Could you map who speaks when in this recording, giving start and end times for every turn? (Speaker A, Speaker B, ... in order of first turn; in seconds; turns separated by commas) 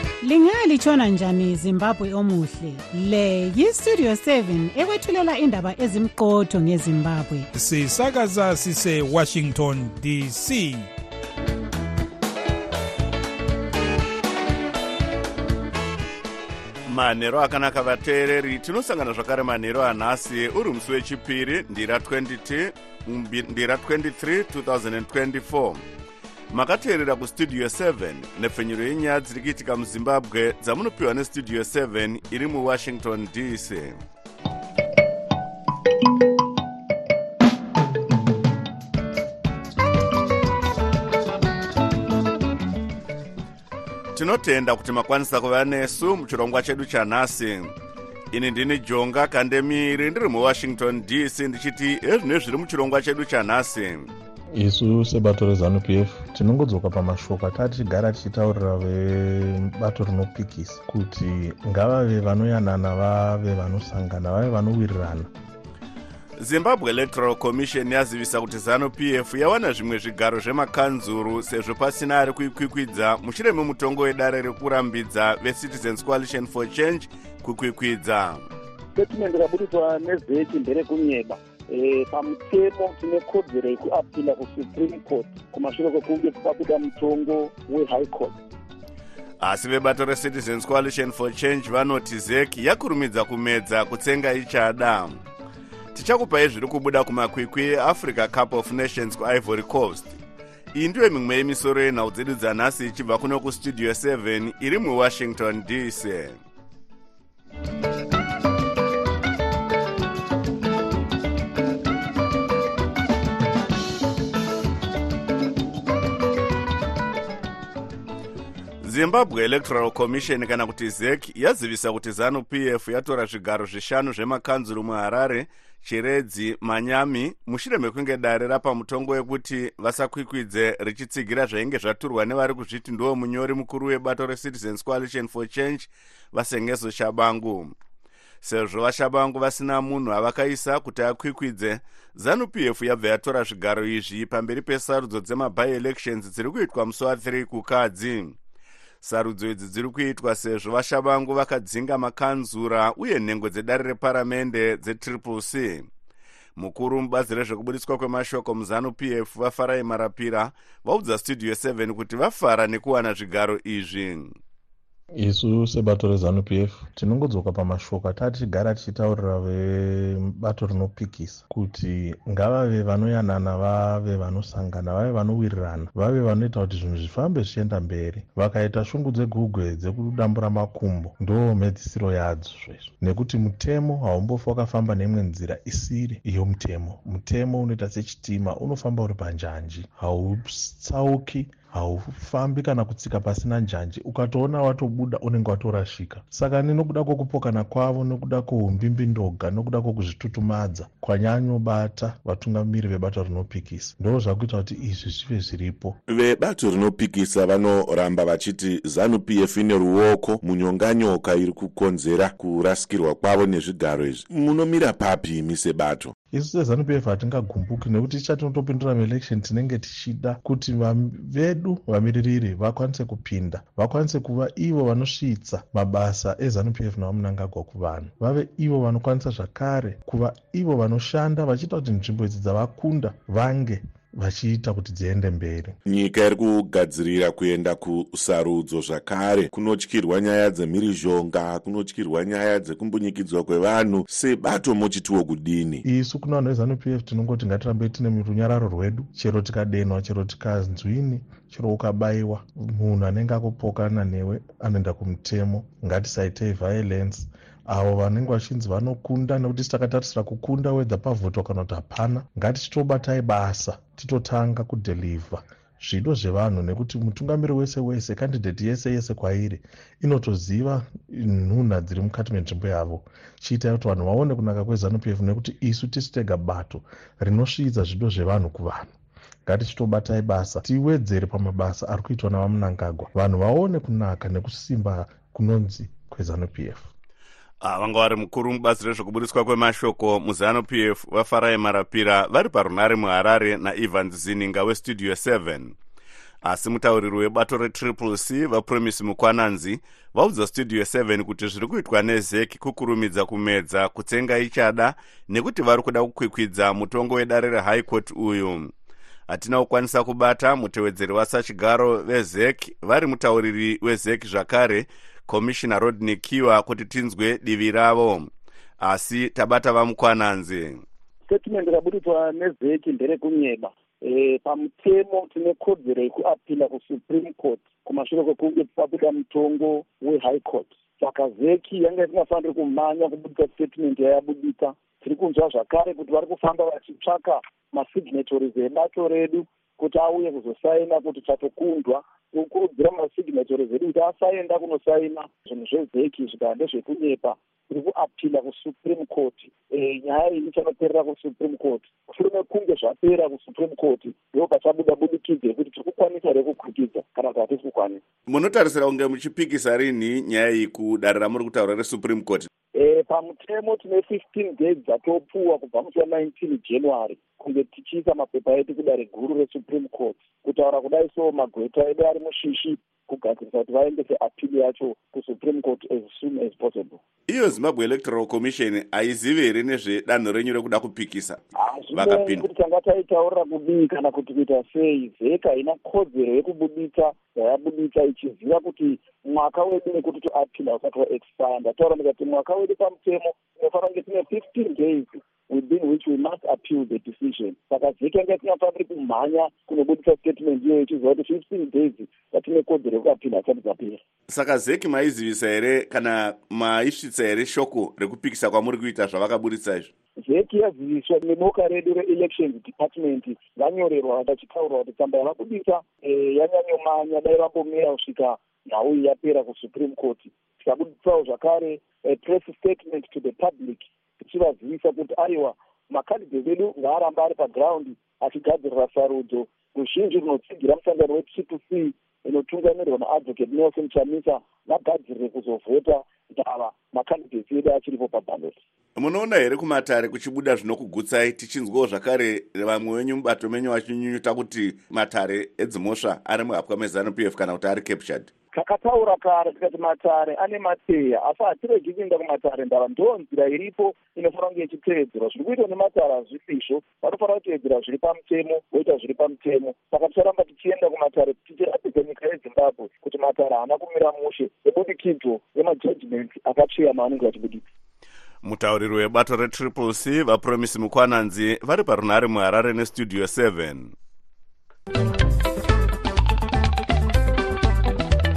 Speaker A: 0.2-7.5, Speaker B: 7.5-10.9, Speaker C: 16.9-25.8, Speaker C: 26.5-34.0, Speaker C: 44.1-47.7, Speaker C: 48.3-54.1, Speaker D: 54.5-65.3, Speaker C: 66.4-78.5, Speaker E: 79.0-88.4, Speaker C: 89.4-95.2, Speaker C: 95.9-100.2, Speaker C: 100.7-106.4, Speaker C: 118.8-137.7, Speaker C: 138.4-148.3, Speaker C: 149.0-155.9, Speaker C: 156.6-164.4, Speaker D: 165.2-206.0, Speaker F: 206.1-216.1, Speaker D: 216.3-235.8, Speaker F: 235.9-245.8, Speaker D: 245.8-278.9, Speaker D: 279.5-286.9, Speaker C: 287.6-295.8, Speaker C: 296.4-308.7, Speaker C: 309.3-318.3, Speaker C: 318.8-320.8, Speaker E: 321.3-358.0, Speaker C: 358.3-362.5, Speaker E: 362.8-377.0, Speaker C: 377.3-381.4, Speaker E: 381.6-404.0, Speaker C: 381.9-382.5, Speaker C: 404.3-409.9, Speaker E: 410.2-438.6, Speaker C: 439.0-448.3, Speaker E: 448.5-467.6, Speaker C: 468.4-473.9